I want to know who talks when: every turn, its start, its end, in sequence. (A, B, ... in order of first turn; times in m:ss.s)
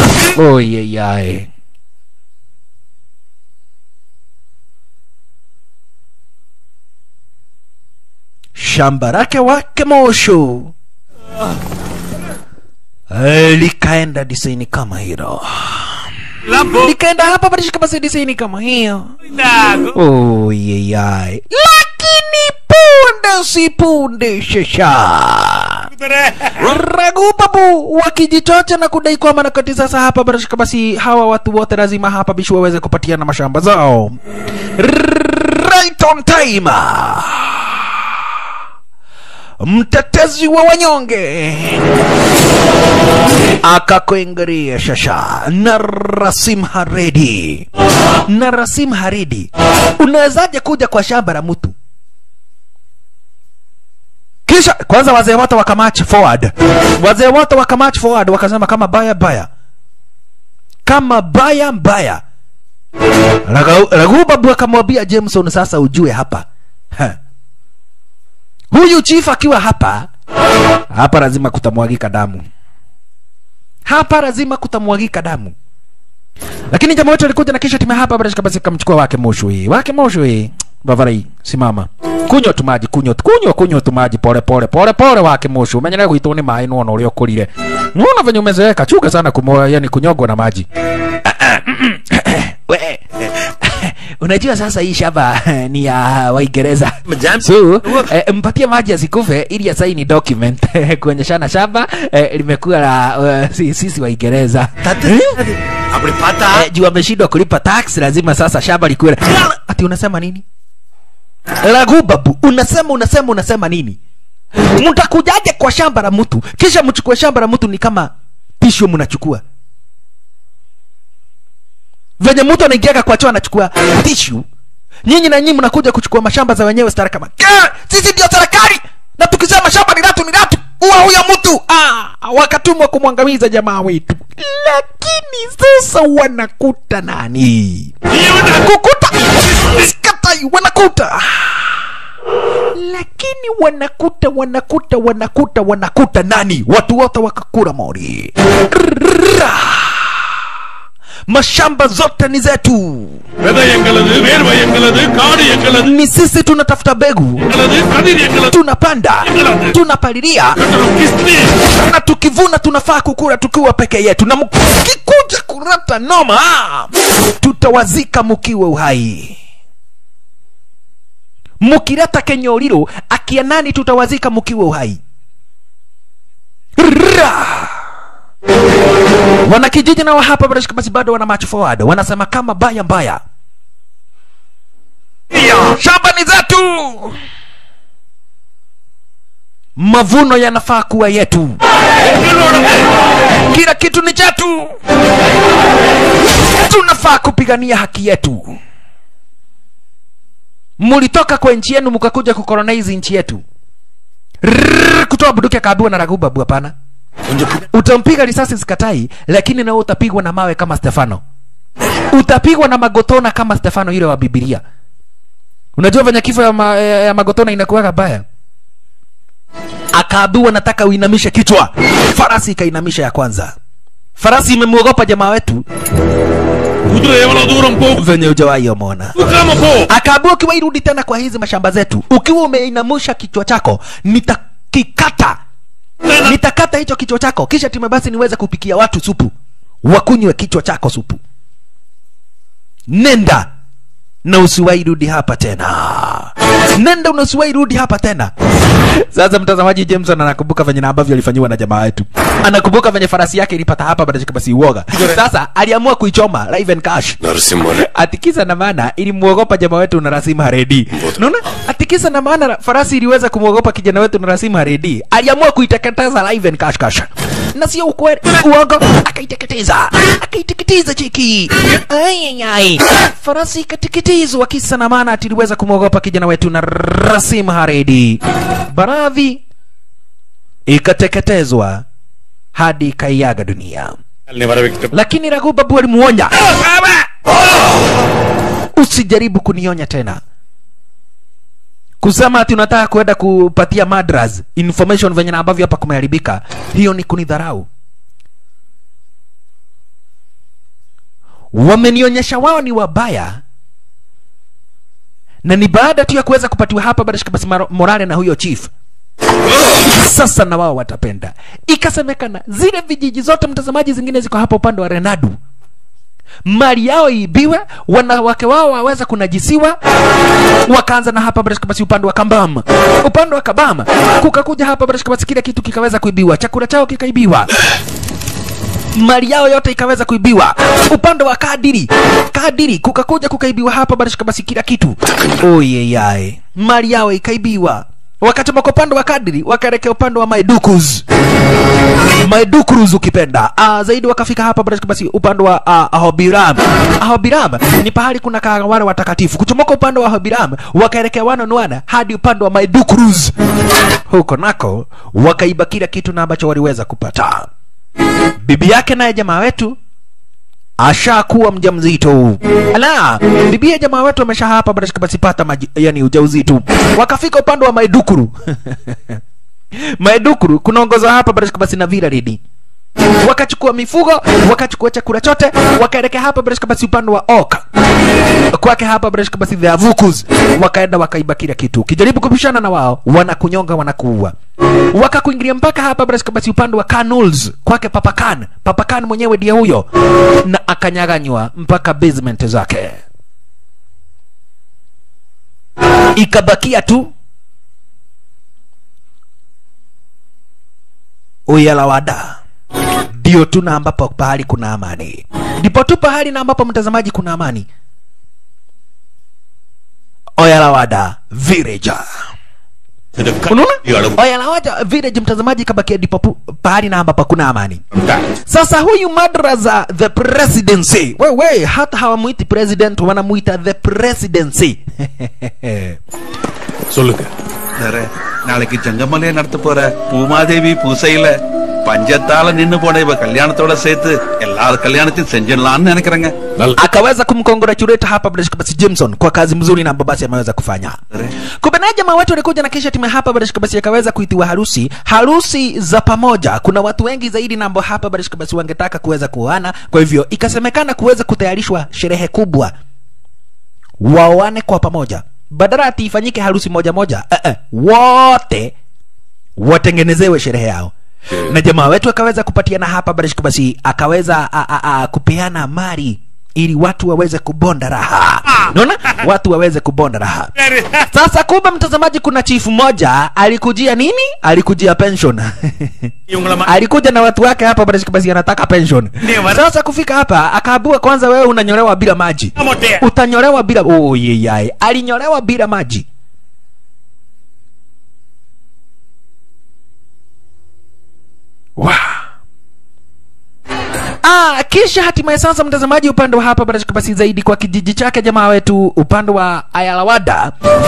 0:00.3-0:01.5 A
0:08.6-0:10.7 A
0:13.1-0:15.9 A
0:16.7-0:19.1 A
0:19.4-0:19.8 B
0:19.9-0:25.9 A
0:26.6-0:34.2 A
0:34.8-0:37.7 A
0:39.6-0:41.8 A
0:43.6-0:47.7 A
0:48.3-0:51.7 A
0:54.5-0:59.5 A
1:00.8-1:02.2 A
1:03.4-1:07.2 A
1:08.7-1:10.1 A
1:10.9-1:12.4 A
1:13.8-1:15.5 A
1:16.7-1:30.7 A
1:31.2-1:33.0 A
1:33.6-1:45.4 A
1:37.1-1:37.3 C
1:45.9-1:46.6 C
1:46.5-1:50.4 A
1:51.6-1:54.0 A
1:54.7-1:59.4 A
2:02.2-2:04.4 A
2:05.0-2:17.9 A
2:18.1-2:18.6 B
2:18.5-2:21.7 A
2:22.8-2:30.0 A
2:31.3-2:33.2 A
2:33.4-2:35.9 B
2:35.8-2:37.4 A
2:37.4-2:38.5 B
2:38.5-2:40.6 A
2:39.2-2:39.8 B
2:40.6-2:41.5 B
2:41.6-2:49.4 A
2:51.6-2:55.0 A
2:56.8-2:57.8 A
2:59.4-3:03.2 A
3:05.6-3:07.2 A
3:09.8-3:11.6 A
3:12.2-3:12.7 B
3:13.5-3:14.8 A
3:16.6-3:18.6 A
3:20.8-3:23.4 A
3:24.4-3:26.7 A
3:27.6-3:31.2 A
3:32.1-3:34.6 A
3:35.8-3:38.2 A
3:39.9-3:43.5 A
3:44.2-3:45.6 A
3:46.9-3:48.0 B
3:47.9-3:49.2 A
3:49.2-3:49.9 B
3:49.9-3:55.4 A
3:56.1-3:56.3 B
3:56.2-3:59.3 A
3:59.8-4:01.2 A
4:02.9-4:03.5 A
4:04.2-4:08.3 A
4:09.1-4:38.2 A
4:38.7-4:39.4 A
4:40.7-4:41.8 A
4:42.5-4:43.9 A
4:44.3-4:44.9 C
4:44.9-4:47.1 A
4:48.8-4:50.2 A
4:52.0-4:57.7 A
5:01.5-5:03.4 A
5:05.4-5:08.7 A
5:10.0-5:15.4 A
5:16.4-5:19.8 A
5:20.7-5:27.5 A
5:29.0-5:41.0 A
5:42.2-5:53.3 A
5:54.1-5:57.5 A
5:58.4-5:59.8 A
6:00.8-6:09.2 A
6:09.8-6:12.4 A
6:13.2-6:17.6 A
6:18.5-6:24.3 A
6:24.9-6:29.9 A
6:30.4-6:33.0 A
6:36.2-6:37.1 A
6:41.5-6:42.4 A
6:43.2-6:47.7 A
6:50.4-6:52.0 A
6:53.2-6:54.1 B
6:53.5-6:57.8 A
6:58.5-7:06.0 A
7:06.9-7:07.3 B
7:07.8-7:16.3 C
7:16.7-7:21.0 A
7:21.6-7:32.7 A
7:34.0-7:38.7 A
7:39.6-7:40.9 A
7:41.4-7:50.5 A
7:51.1-7:56.1 A
7:56.6-8:06.0 A
8:11.8-8:12.2 A
8:14.2-8:20.5 A